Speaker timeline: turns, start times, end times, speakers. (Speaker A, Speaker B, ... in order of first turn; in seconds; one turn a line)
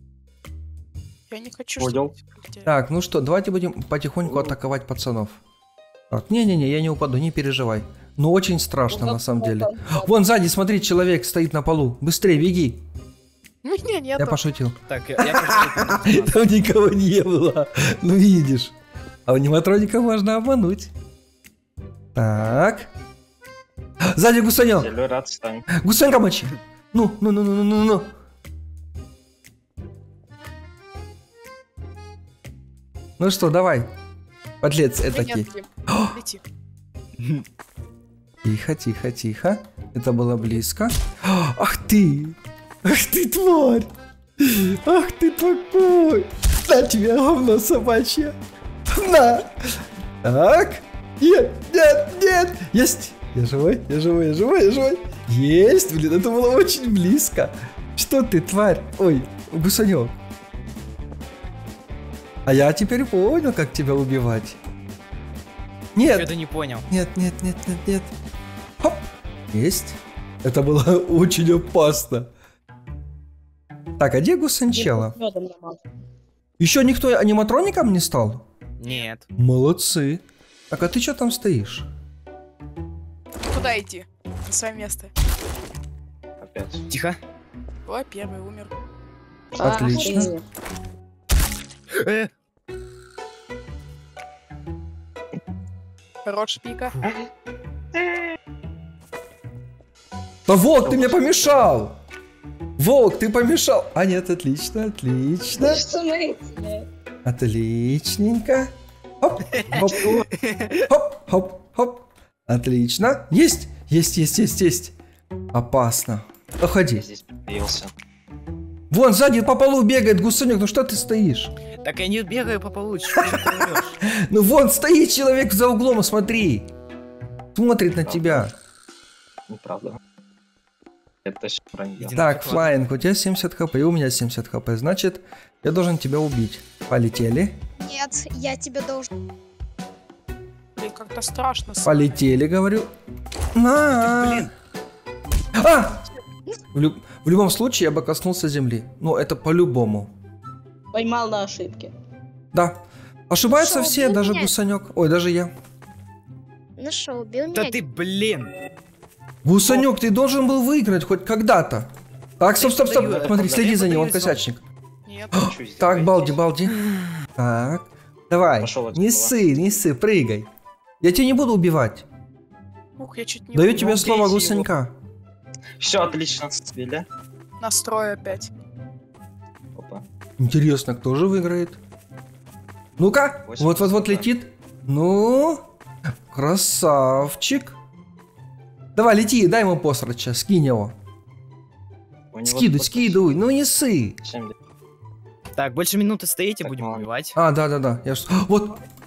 Speaker A: 1.3-2.7
Speaker B: 1.8-2.1
Speaker C: 2.6-5.4
Speaker C: 6.1-12.8
Speaker D: 8.9-10.1
Speaker A: 13.6-14.4
Speaker C: 14.2-18.7
Speaker E: 14.9-16.4
Speaker C: 19.3-20.9
Speaker C: 22.1-22.9
Speaker C: 24.1-24.9
Speaker B: 24.8-25.6
Speaker C: 25.7-28.1
Speaker C: 33.2-33.9
Speaker C: 34.6-36.1
Speaker A: 35.1-36.4
Speaker E: 37.2-37.5
Speaker C: 38.4-48.4
Speaker C: 48.9-60.1
Speaker C: 62.5-64.6
Speaker C: 66.0-66.3
Speaker E: 66.1-66.9
Speaker C: 66.9-68.1
Speaker C: 69.5-72.3
Speaker C: 74.0-75.1
Speaker D: 74.7-75.8
Speaker C: 76.6-78.5
Speaker E: 78.8-79.3
Speaker C: 79.4-81.9
Speaker A: 83.4-85.1
Speaker B: 86.4-86.8
Speaker E: 86.9-87.2
Speaker A: 87.9-88.7
Speaker D: 89.5-90.4
Speaker C: 89.6-90.3
Speaker E: 91.9-92.3
Speaker A: 96.2-97.0
Speaker C: 100.5-102.0
Speaker C: 102.8-105.8
Speaker D: 105.6-106.9
Speaker C: 107.2-110.3
Speaker E: 109.5-110.8
Speaker C: 110.9-114.9
Speaker C: 115.5-117.1
Speaker B: 117.0-117.9
Speaker C: 118.9-121.5
Speaker E: 121.8-124.0
Speaker C: 123.2-123.5
Speaker C: 124.1-126.7
Speaker C: 127.5-128.6
Speaker B: 128.0-128.5
Speaker B: 129.5-130.0
Speaker B: 131.2-132.1
Speaker E: 132.0-132.7
Speaker C: 132.2-137.6
Speaker F: 137.8-139.1
Speaker A: 140.8-142.1
Speaker C: 141.8-142.9
Speaker C: 143.6-144.5
Speaker E: 143.9-144.5
Speaker C: 145.6-146.0
Speaker C: 146.7-150.1
Speaker D: 150.9-151.9
Speaker C: 152.5-152.8
Speaker C: 153.3-155.5
Speaker F: 153.5-154.5
Speaker F: 156.8-157.8
Speaker E: 157.5-158.5
Speaker C: 159.4-164.6
Speaker E: 162.6-164.4
Speaker A: 165.1-165.6
Speaker C: 165.3-166.8
Speaker B: 165.6-166.4
Speaker E: 166.7-167.0
Speaker C: 167.4-170.5
Speaker B: 168.6-169.3
Speaker C: 171.0-172.1
Speaker A: 173.0-174.0
Speaker C: 173.5-174.9
Speaker B: 175.8-177.1
Speaker A: 177.6-178.5
Speaker B: 179.8-180.0
Speaker C: 180.4-181.8
Speaker C: 183.0-185.6
Speaker B: 183.5-184.3
Speaker C: 186.3-187.8
Speaker C: 188.9-190.9
Speaker B: 192.3-193.2
Speaker C: 192.4-194.2
Speaker B: 194.2-194.5
Speaker E: 195.6-197.4
Speaker B: 196.6-197.1
Speaker C: 197.4-198.8